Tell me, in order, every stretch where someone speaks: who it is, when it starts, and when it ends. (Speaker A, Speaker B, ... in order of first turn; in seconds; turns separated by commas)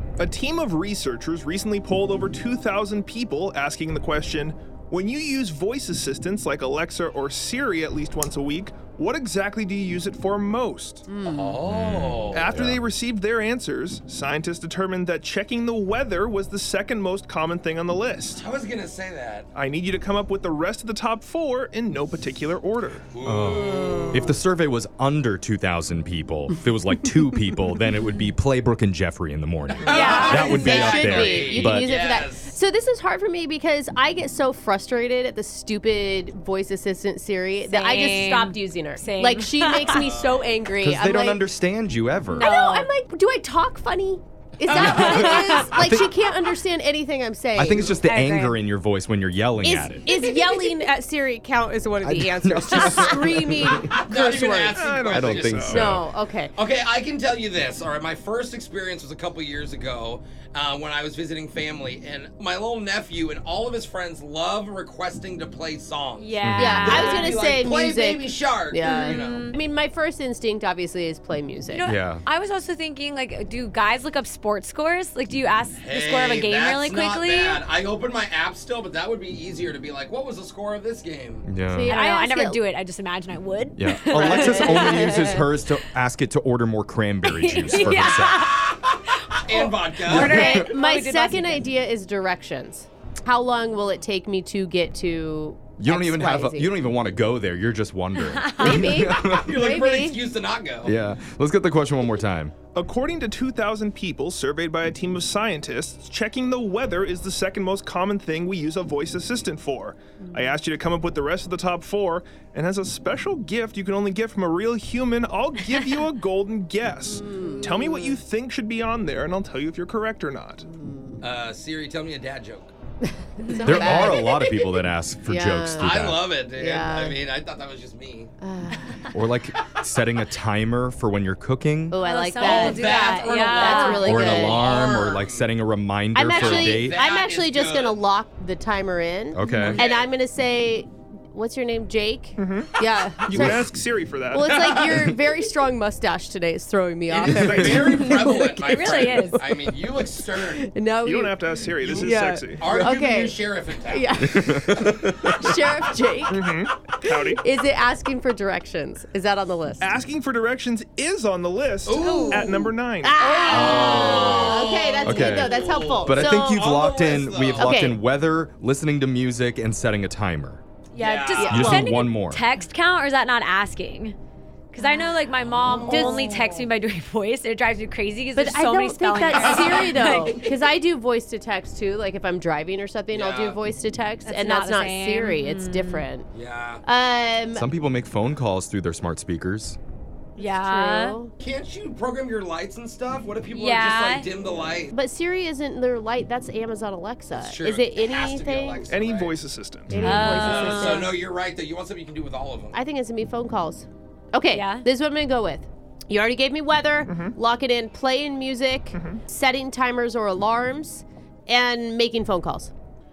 Speaker A: 0.2-11.1, Speaker B: 11.1-11.5, Speaker C: 11.2-12.4, Speaker D: 11.7-12.8, Speaker A: 12.3-18.4, Speaker C: 18.3-19.5, Speaker A: 19.5-23.0, Speaker C: 23.1-24.3, Speaker D: 23.2-31.9, Speaker B: 23.6-24.2, Speaker C: 29.8-32.5, Speaker E: 29.9-30.8, Speaker B: 29.9-41.4, Speaker E: 37.6-40.1, Speaker C: 39.9-40.3, Speaker D: 40.8-42.5, Speaker E: 42.3-42.9, Speaker B: 42.4-47.9, Speaker E: 44.7-45.6, Speaker D: 44.7-46.1, Speaker D: 47.5-50.0, Speaker E: 48.0-48.6, Speaker B: 49.6-55.0, Speaker D: 52.0-53.9, Speaker C: 53.9-55.9, Speaker A: 54.7-55.9, Speaker D: 55.1-56.0, Speaker B: 55.7-56.5, Speaker C: 56.5-69.5, Speaker E: 66.2-67.4, Speaker D: 66.5-67.0, Speaker B: 66.6-71.8, Speaker E: 68.8-69.6, Speaker E: 71.7-77.6, Speaker D: 71.8-72.2, Speaker C: 75.8-81.5, Speaker D: 81.4-82.0, Speaker B: 81.7-82.6, Speaker E: 81.8-85.5, Speaker D: 83.8-88.6, Speaker B: 84.1-85.4, Speaker E: 87.2-88.7, Speaker C: 88.7-90.4, Speaker E: 89.5-91.7, Speaker D: 90.0-90.7, Speaker B: 90.1-96.7, Speaker D: 95.8-99.6, Speaker E: 98.3-98.9, Speaker B: 98.6-100.2, Speaker C: 99.1-100.9, Speaker D: 100.8-102.5, Speaker A: 102.7-120.7, Speaker B: 117.0-118.2, Speaker E: 117.4-117.8, Speaker B: 120.6-121.2, Speaker C: 121.2-122.7, Speaker B: 123.0-124.3, Speaker E: 123.4-124.0, Speaker D: 123.6-126.3, Speaker B: 125.3-125.9, Speaker C: 125.8-128.3, Speaker B: 126.5-127.2, Speaker B: 128.4-128.9, Speaker D: 129.1-132.0, Speaker B: 131.9-134.7, Speaker E: 131.9-134.3, Speaker C: 132.4-135.4, Speaker D: 134.0-137.0, Speaker B: 136.1-143.7, Speaker C: 136.3-138.0, Speaker D: 139.3-139.8, Speaker C: 139.4-140.1, Speaker A: 142.4-142.7, Speaker A: 143.3-144.7, Speaker D: 143.3-143.7, Speaker B: 144.3-159.9, Speaker C: 147.1-150.6, Speaker A: 147.3-148.1, Speaker E: 148.4-149.4, Speaker A: 151.0-152.9, Speaker C: 152.6-154.2, Speaker D: 154.3-155.4, Speaker A: 156.3-157.4, Speaker A: 159.8-163.2, Speaker C: 161.8-162.5, Speaker E: 162.0-164.1, Speaker B: 162.1-162.4, Speaker B: 163.0-166.7, Speaker C: 163.3-167.7, Speaker D: 163.5-170.6, Speaker B: 167.6-168.0, Speaker E: 170.9-174.2, Speaker C: 170.9-171.8, Speaker B: 171.3-171.9, Speaker D: 171.5-172.4, Speaker E: 174.7-180.5, Speaker C: 175.2-176.5, Speaker B: 175.9-176.3, Speaker B: 178.3-186.3, Speaker C: 179.3-180.0, Speaker C: 183.1-183.6, Speaker E: 184.2-186.1, Speaker C: 186.3-186.8, Speaker B: 186.8-187.6, Speaker D: 187.6-189.8, Speaker E: 190.4-191.2, Speaker B: 190.4-191.3, Speaker C: 191.4-194.9, Speaker E: 193.5-194.3, Speaker B: 194.9-198.8, Speaker C: 197.3-199.4, Speaker A: 198.9-200.4, Speaker B: 199.9-201.2, Speaker E: 199.9-201.2, Speaker C: 200.2-202.8, Speaker B: 202.7-212.7, Speaker E: 204.5-204.8, Speaker A: 207.0-207.3, Speaker A: 208.9-209.2